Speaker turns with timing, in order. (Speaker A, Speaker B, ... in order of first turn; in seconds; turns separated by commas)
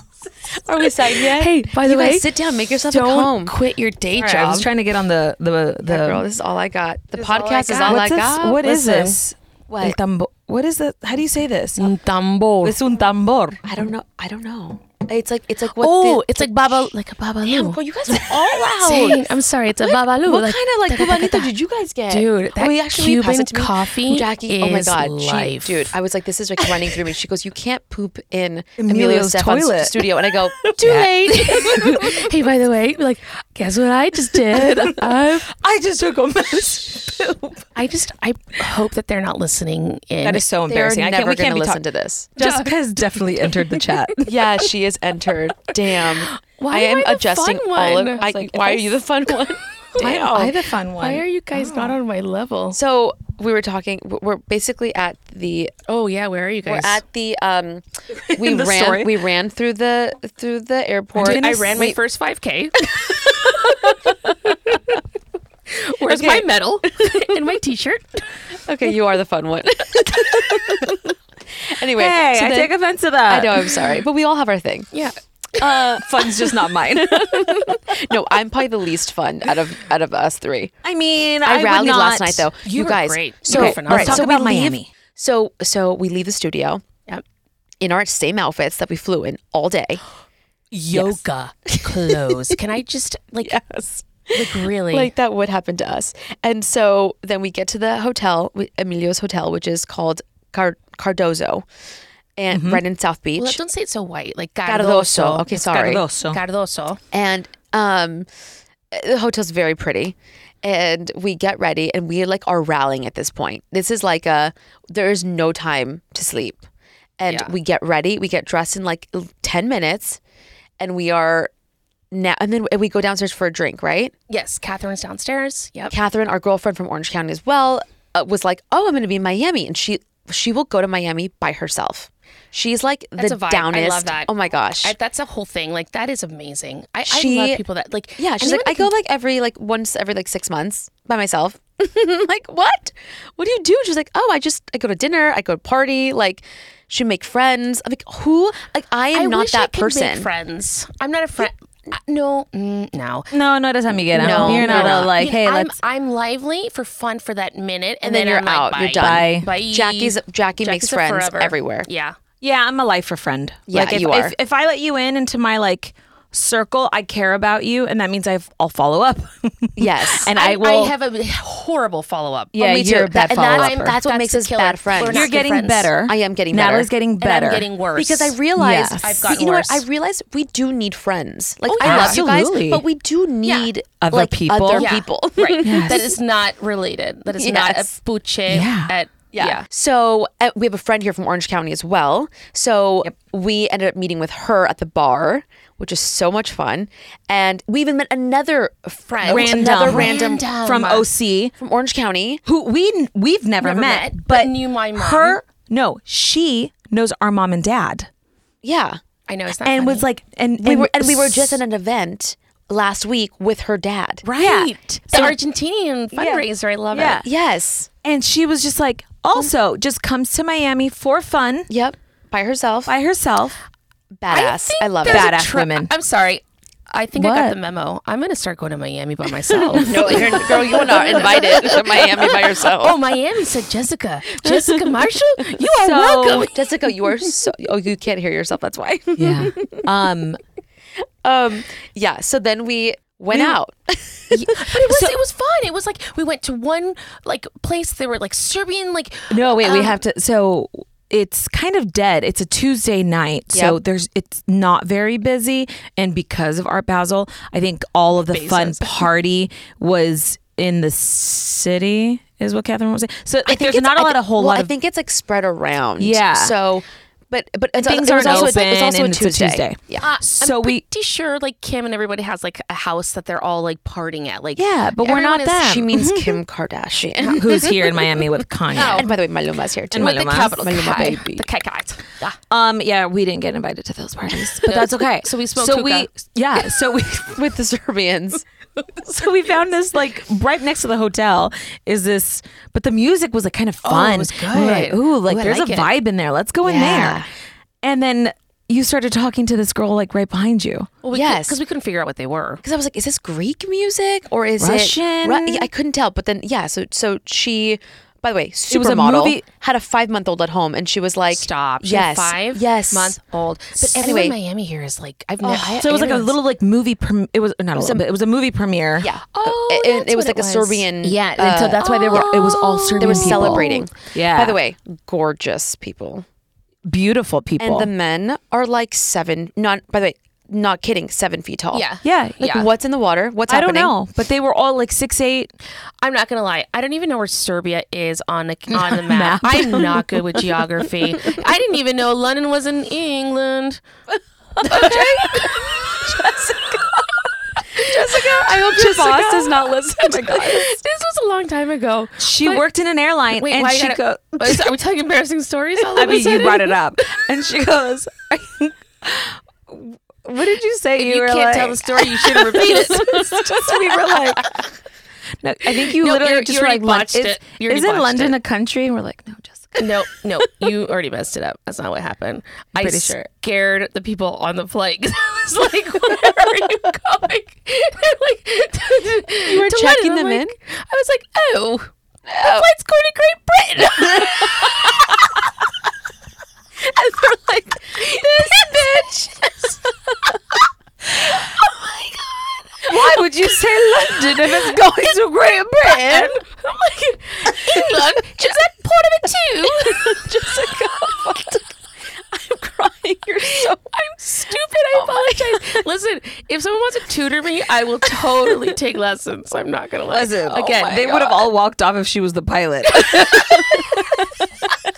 Speaker A: 0.6-3.5, Speaker B: 1.2-2.3, Speaker B: 2.9-4.7, Speaker C: 4.2-6.2, Speaker A: 5.8-8.8, Speaker B: 7.2-8.0, Speaker C: 7.8-11.9, Speaker B: 8.6-9.1, Speaker A: 9.7-10.0, Speaker B: 11.8-12.8, Speaker C: 12.6-13.6, Speaker A: 13.7-16.9, Speaker B: 15.8-21.5, Speaker A: 17.4-19.2, Speaker A: 19.8-32.2, Speaker B: 22.1-25.9, Speaker C: 28.8-31.7, Speaker B: 31.4-35.5, Speaker C: 34.5-37.7, Speaker B: 37.7-40.5, Speaker C: 40.2-41.8, Speaker A: 40.7-42.7, Speaker C: 42.4-44.4, Speaker A: 44.2-50.5, Speaker B: 46.4-48.9, Speaker C: 50.0-51.9, Speaker B: 51.0-52.8, Speaker A: 52.7-55.8, Speaker B: 55.9-57.0, Speaker A: 56.6-62.0, Speaker C: 58.2-59.1, Speaker C: 61.2-61.7, Speaker B: 61.2-63.7, Speaker A: 63.5-64.1, Speaker B: 64.5-64.8, Speaker B: 65.7-68.2, Speaker A: 66.0-67.6, Speaker A: 68.7-71.1, Speaker A: 71.7-72.7, Speaker C: 72.0-73.8, Speaker A: 73.3-74.9, Speaker B: 74.9-75.2, Speaker A: 75.6-80.8, Speaker C: 75.9-77.8, Speaker C: 80.8-84.9, Speaker A: 81.4-87.1, Speaker B: 82.7-84.3, Speaker A: 87.8-90.0, Speaker C: 90.7-91.2, Speaker B: 90.8-93.6, Speaker A: 91.7-92.5, Speaker A: 93.4-101.7, Speaker B: 94.3-95.1, Speaker A: 102.4-103.6, Speaker C: 102.5-102.8, Speaker B: 103.4-107.0, Speaker A: 104.7-106.0, Speaker C: 105.5-106.4, Speaker A: 107.1-108.3, Speaker A: 108.9-116.6, Speaker A: 117.2-120.2, Speaker B: 117.3-117.5, Speaker A: 120.8-121.5, Speaker A: 122.1-124.1, Speaker B: 124.3-126.0, Speaker A: 125.9-134.9, Speaker B: 133.2-134.3, Speaker B: 134.8-138.9, Speaker A: 137.1-137.6, Speaker A: 138.2-150.3, Speaker B: 149.1-153.3, Speaker C: 153.3-155.8, Speaker B: 154.1-162.2, Speaker A: 154.1-155.3, Speaker A: 158.0-161.9, Speaker C: 159.0-159.5, Speaker C: 162.4-170.9, Speaker A: 163.7-164.3, Speaker A: 169.8-170.3, Speaker B: 170.3-172.5, Speaker C: 172.5-174.0, Speaker A: 172.6-175.3, Speaker B: 173.6-176.0, Speaker C: 175.0-177.7, Speaker A: 176.1-176.9, Speaker B: 177.2-178.4, Speaker A: 177.9-186.2, Speaker C: 178.6-179.0, Speaker B: 179.0-179.8, Speaker B: 181.7-182.2, Speaker C: 181.8-182.8, Speaker B: 183.4-183.7, Speaker C: 184.0-184.9, Speaker B: 184.7-189.6, Speaker C: 185.6-186.0, Speaker A: 187.3-187.9, Speaker C: 188.5-188.9, Speaker A: 189.3-200.4, Speaker B: 199.1-201.1, Speaker C: 199.2-201.5, Speaker A: 201.6-202.4, Speaker C: 202.4-208.1, Speaker B: 203.6-205.4, Speaker A: 208.6-209.0, Speaker B: 209.3-210.1, Speaker C: 209.6-211.6, Speaker A: 210.6-214.2, Speaker C: 214.2-215.3, Speaker B: 214.3-217.2, Speaker C: 216.2-217.2, Speaker A: 217.2-217.9, Speaker C: 218.0-221.7, Speaker A: 221.7-222.9, Speaker C: 222.9-223.6, Speaker A: 224.2-225.4, Speaker B: 224.3-236.6, Speaker C: 225.0-225.9, Speaker C: 227.1-227.6, Speaker A: 229.7-233.1, Speaker C: 229.9-230.4, Speaker A: 234.4-235.1, Speaker C: 235.7-236.5, Speaker A: 236.1-239.8, Speaker C: 239.2-240.4, Speaker A: 241.2-244.8, Speaker C: 243.3-243.6, Speaker B: 244.5-250.0, Speaker C: 244.7-245.1, Speaker C: 249.3-264.7, Speaker A: 253.5-253.8, Speaker B: 258.2-259.1, Speaker A: 263.4-270.1, Speaker C: 266.0-266.5, Speaker C: 267.8-270.8, Speaker B: 268.2-268.7, Speaker B: 270.0-275.6, Speaker C: 274.6-276.4, Speaker A: 275.0-277.9, Speaker C: 277.3-279.1, Speaker B: 278.7-279.1, Speaker A: 278.9-281.4, Speaker C: 279.9-281.1, Speaker B: 280.0-282.4, Speaker C: 282.5-287.3, Speaker B: 284.6-286.1, Speaker A: 287.3-288.4, Speaker C: 288.9-297.2, Speaker B: 293.8-295.9, Speaker A: 296.6-297.3, Speaker C: 297.8-300.9, Speaker B: 301.0-302.6, Speaker A: 301.1-301.6, Speaker A: 302.6-313.2, Speaker C: 304.6-305.7, Speaker C: 308.7-309.4, Speaker B: 311.3-316.3, Speaker A: 313.8-314.4, Speaker C: 315.4-319.1, Speaker A: 317.8-318.1, Speaker A: 319.0-326.2, Speaker B: 319.3-320.9, Speaker C: 321.0-324.6, Speaker B: 321.7-323.9, Speaker C: 326.9-327.9, Speaker A: 327.6-331.9, Speaker B: 331.7-332.7, Speaker C: 332.0-332.4, Speaker A: 332.4-333.9, Speaker C: 333.5-335.5, Speaker B: 336.0-343.8, Speaker C: 338.7-340.4, Speaker A: 344.6-347.0, Speaker C: 344.6-345.3, Speaker B: 344.7-346.1, Speaker B: 347.8-349.4, Speaker A: 347.8-350.7, Speaker B: 350.0-352.6, Speaker C: 352.2-354.7, Speaker B: 353.3-356.8, Speaker C: 355.9-364.4, Speaker B: 361.0-364.6, Speaker C: 365.4-369.9, Speaker B: 365.9-368.4, Speaker B: 369.8-385.1, Speaker C: 372.8-373.1, Speaker A: 379.4-380.6, Speaker A: 382.3-382.7, Speaker A: 384.4-384.9, Speaker B: 386.8-389.8, Speaker A: 387.9-389.2, Speaker A: 391.6-393.4, Speaker C: 392.9-396.4, Speaker B: 396.0-400.2, Speaker A: 396.6-398.7, Speaker A: 399.6-401.7, Speaker A: 402.3-403.9, Speaker B: 403.6-410.4, Speaker A: 404.9-405.8, Speaker C: 410.1-413.8, Speaker A: 410.5-411.4, Speaker A: 413.0-414.2